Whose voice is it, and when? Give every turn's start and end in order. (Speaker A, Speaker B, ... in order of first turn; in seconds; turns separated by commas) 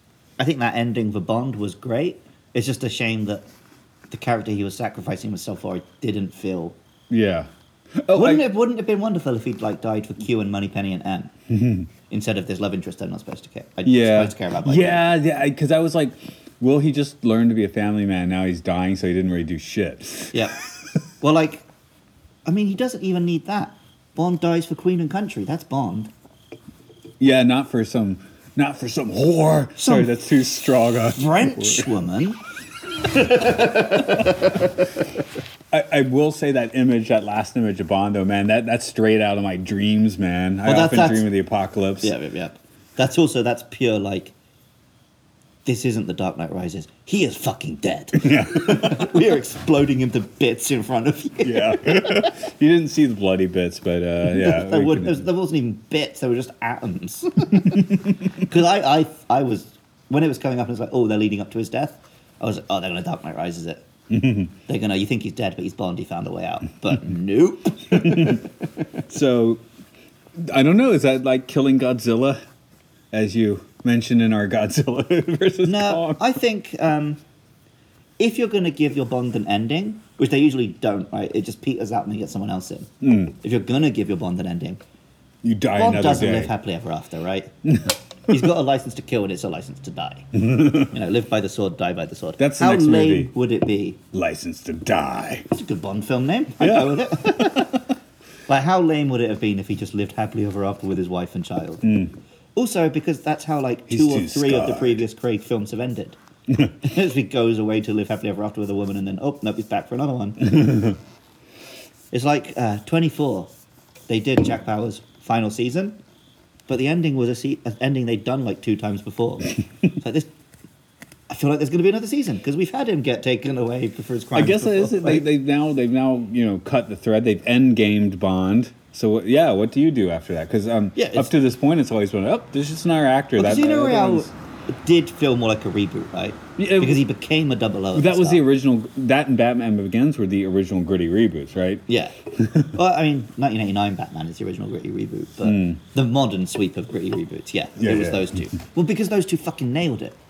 Speaker A: 0.4-3.5, Speaker A: 4.1-6.8, Speaker B: 7.1-8.5, Speaker A: 8.1-11.3, Speaker B: 11.5-11.9, Speaker A: 12.1-15.1, Speaker B: 13.9-20.4, Speaker A: 21.2-21.6, Speaker A: 22.4-26.1, Speaker B: 27.2-31.9, Speaker A: 29.8-30.1, Speaker A: 31.1-32.4, Speaker A: 33.1-34.5, Speaker B: 35.7-42.1, Speaker A: 40.6-41.2, Speaker A: 42.0-44.3, Speaker A: 45.6-52.3, Speaker B: 48.2-49.2, Speaker B: 51.5-55.3, Speaker A: 54.3-63.9, Speaker B: 64.1-64.5, Speaker A: 64.7-68.5, Speaker B: 67.9-68.4, Speaker B: 69.1-69.6, Speaker B: 70.3-72.4, Speaker B: 73.1-76.2, Speaker A: 75.7-77.2, Speaker A: 78.2-84.8, Speaker B: 83.0-83.3, Speaker B: 85.4-86.5, Speaker A: 85.8-87.5, Speaker B: 87.7-88.4, Speaker A: 88.3-94.0, Speaker B: 90.3-90.9, Speaker B: 92.4-93.3, Speaker B: 94.1-95.5, Speaker A: 95.5-97.8, Speaker B: 96.6-97.8, Speaker A: 98.5-101.8, Speaker B: 101.8-102.1, Speaker A: 102.6-106.2, Speaker B: 103.9-105.0, Speaker A: 106.8-110.7, Speaker B: 110.5-111.0, Speaker A: 112.1-113.5, Speaker A: 114.1-116.0, Speaker A: 116.7-120.3, Speaker A: 121.3-125.3, Speaker B: 124.3-134.3, Speaker A: 131.0-131.3, Speaker A: 133.4-138.4, Speaker B: 136.6-137.0, Speaker B: 137.9-142.7, Speaker A: 141.9-142.2, Speaker A: 142.7-150.2, Speaker B: 145.4-145.8, Speaker B: 147.8-148.3